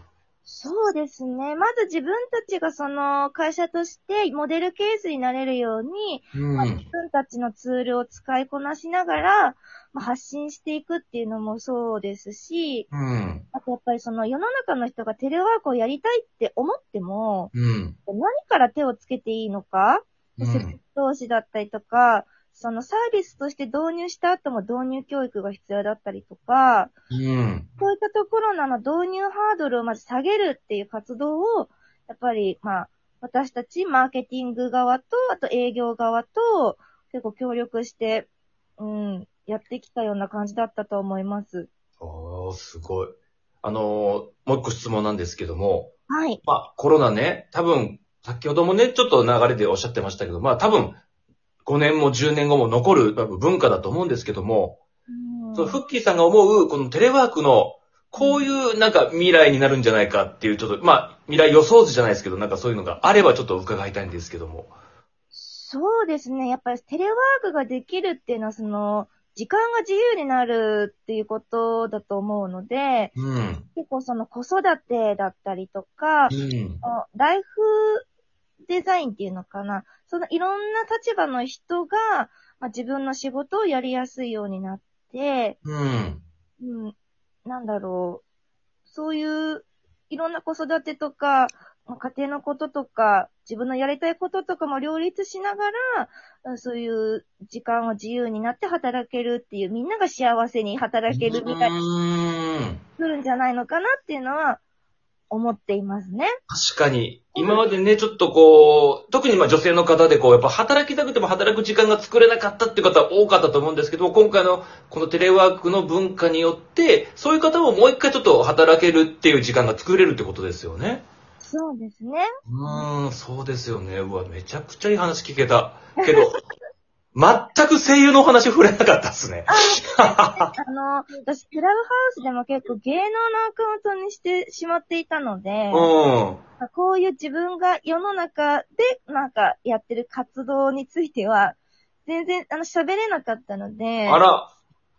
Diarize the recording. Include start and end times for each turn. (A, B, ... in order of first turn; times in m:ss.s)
0:00.4-0:12.9 A
0:06.3-0:06.8 B
0:12.9-0:13.4 B
0:13.5-0:17.5 A
0:17.5-0:18.0 B
0:18.0-0:26.9 A
0:20.4-0:20.8 B
0:27.1-0:27.7 B
0:27.8-0:41.7 A
0:42.0-0:45.9 B
0:46.1-0:46.4 A
0:46.4-0:51.0 B
0:51.6-0:54.8 B
0:55.1-0:55.8 A
0:55.5-1:04.7 B
0:58.2-0:58.5 A
1:05.3-1:13.1 A
1:13.1-1:13.7 B
1:13.7-1:18.0 A
1:16.3-1:16.8 B
1:18.6-1:25.6 A
1:25.6-1:26.2 B
1:26.6-1:28.2 A
1:28.9-1:41.7 A
1:41.1-1:42.8 B
1:43.0-1:44.6 A
1:45.3-1:46.3 A
1:46.5-2:01.0 B
1:47.4-1:47.7 A
2:01.4-2:02.8 A
2:02.5-2:06.4 B
2:06.0-2:06.3 A
2:07.1-2:10.5 B
2:09.5-2:15.9 A
2:15.7-2:16.4 B
2:16.6-2:24.2 A
2:24.0-2:24.5 B